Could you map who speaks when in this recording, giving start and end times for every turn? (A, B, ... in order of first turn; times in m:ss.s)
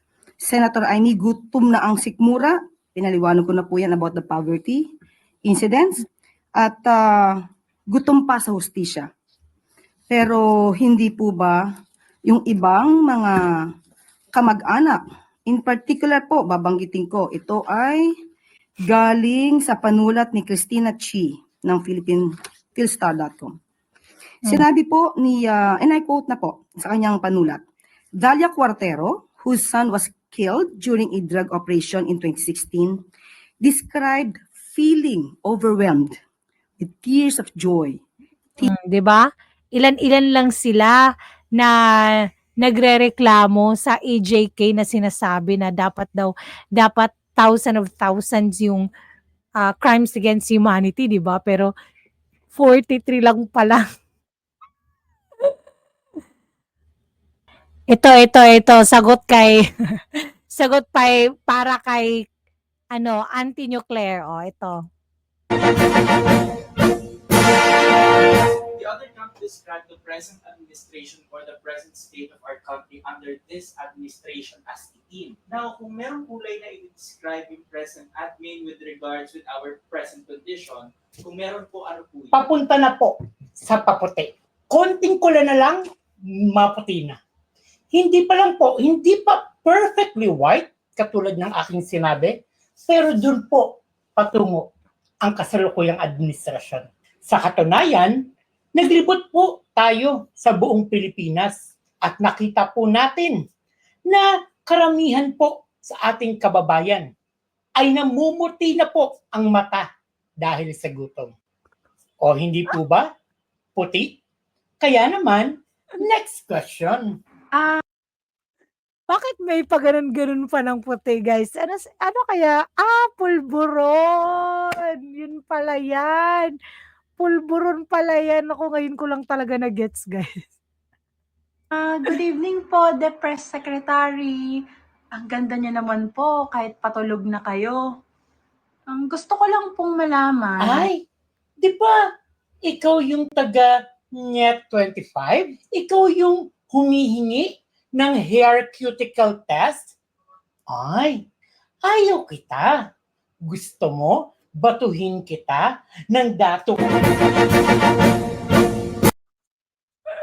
0:00.4-0:04.8 A
0:05.4-0:06.0 A
0:06.6-0:07.4 A
0:07.9-0:09.1 A
0:10.1-0:11.6 A
0:12.3-0:13.6 A
0:14.3-0:18.1 A
0:18.8-0:23.5 A
0:24.4-0:27.6 A
0:28.2-0:33.0 A
0:33.6-0:36.2 A
0:36.8-0:38.0 A
0:38.6-0:41.0 B
0:41.6-0:48.8 B
0:49.6-0:51.7 B
0:52.5-0:53.8 B
0:57.9-1:00.0 B
1:00.5-1:02.2 B
1:02.9-1:04.8 B
1:08.7-1:22.5 C
1:22.5-1:23.1 D
1:23.6-1:25.8 D
1:26.6-1:27.2 D
1:27.9-1:32.3 D
1:32.9-1:33.6 D
1:34.2-1:34.6 D
1:35.3-1:38.1 D
1:38.8-1:41.5 D
1:42.1-1:43.3 D
1:44.1-1:47.0 D
1:47.8-1:49.8 D
1:50.4-1:51.3 D
1:52.2-1:53.0 D
1:53.8-1:54.1 D
1:54.8-1:55.5 D
1:56.0-1:57.0 D
1:57.5-1:57.8 E
1:59.1-2:06.5 B
2:07.2-2:10.4 B
2:11.7-2:14.6 E
2:15.1-2:17.8 E
2:18.9-2:20.9 E
2:21.6-2:21.9 D
2:22.7-2:23.7 D
2:24.3-2:29.8 D
2:30.7-2:31.1 D
2:31.9-2:32.7 D
2:33.5-2:34.1 D
2:34.6-2:35.6 D
2:36.1-2:37.0 D